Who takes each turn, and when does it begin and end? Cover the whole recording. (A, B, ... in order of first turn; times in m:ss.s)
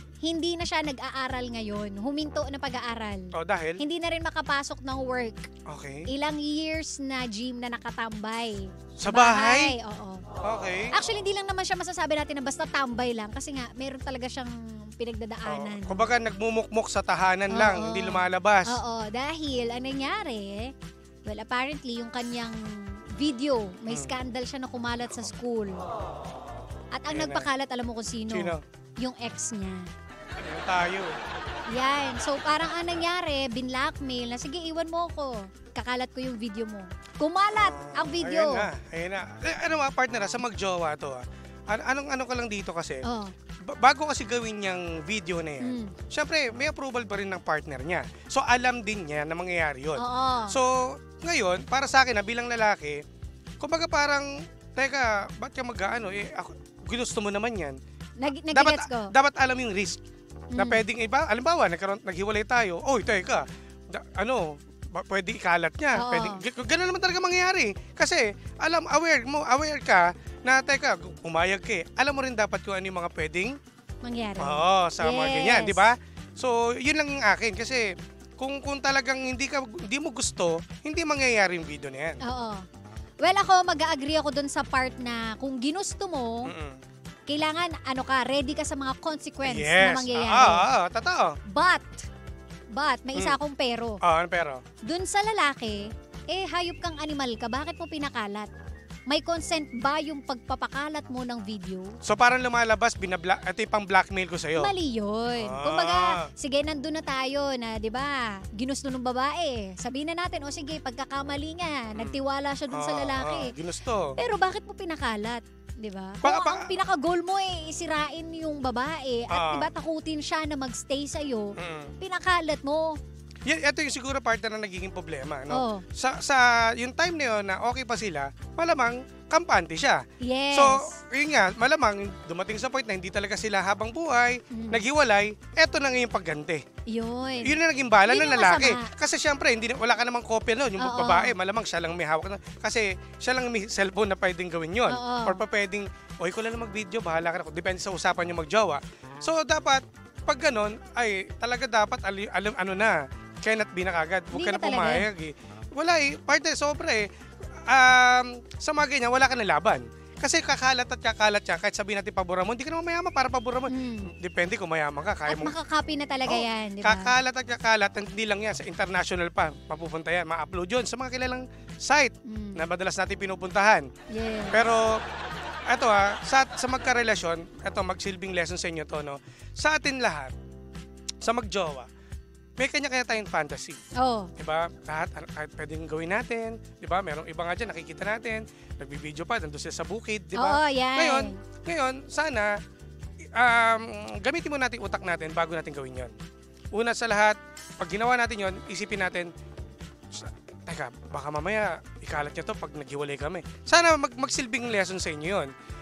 0:00.2-0:05.5 A
0:03.3-0:03.8 B
0:05.7-0:06.1 B
0:06.1-0:10.2 A
0:09.0-0:09.8 B
0:10.4-0:10.9 B
0:10.9-0:16.1 A
0:15.4-0:18.8 B
0:17.5-0:20.7 A
0:21.2-0:25.8 A
0:26.9-0:29.9 A
0:27.1-0:27.5 B
0:28.3-0:28.6 B
0:30.4-0:31.2 B
0:31.7-0:38.7 A
0:37.5-0:43.0 B
0:43.0-0:43.3 A
0:43.6-0:53.0 B
0:45.6-0:45.9 A
0:50.0-0:50.6 A
0:53.6-0:57.8 B
0:58.2-0:59.1 A
0:58.5-1:00.0 B
1:00.5-1:00.8 A
1:00.5-1:13.6 B
1:05.9-1:06.4 A
1:14.0-1:15.9 A
1:14.4-1:22.2 B
1:22.2-1:22.6 A
1:23.2-1:26.5 A
1:26.4-1:26.8 B
1:27.3-1:30.7 A
1:29.4-1:31.3 B
1:31.5-1:32.0 A
1:32.7-1:34.0 A
1:34.0-1:34.6 B
1:34.8-1:38.5 A
1:39.1-1:41.9 A
1:42.0-1:44.7 B
1:44.6-1:53.6 A
1:45.4-1:46.3 B
1:52.7-1:54.2 B
1:54.2-2:03.0 A
1:56.2-1:56.7 B
1:59.3-1:59.7 B
2:01.6-2:01.9 B
2:03.4-2:16.6 B
2:05.5-2:05.8 A
2:10.2-2:10.9 A
2:14.5-2:14.8 A
2:16.9-2:18.9 A
2:17.4-2:37.1 B
2:20.8-2:21.3 A
2:24.9-2:25.4 A
2:34.3-2:35.1 A
2:37.7-2:45.5 B
2:43.7-2:44.1 A
2:45.3-2:47.1 A
2:46.2-2:53.9 B
2:52.2-2:52.6 A
2:54.1-2:54.6 A
2:54.5-2:55.0 B
2:55.7-3:00.3 B
3:01.2-3:01.9 B
3:02.6-3:03.8 B
3:04.0-3:04.3 A
3:04.4-3:12.5 B
3:10.3-3:11.4 A
3:13.4-3:16.1 B
3:16.7-3:19.3 B
3:20.1-3:25.5 B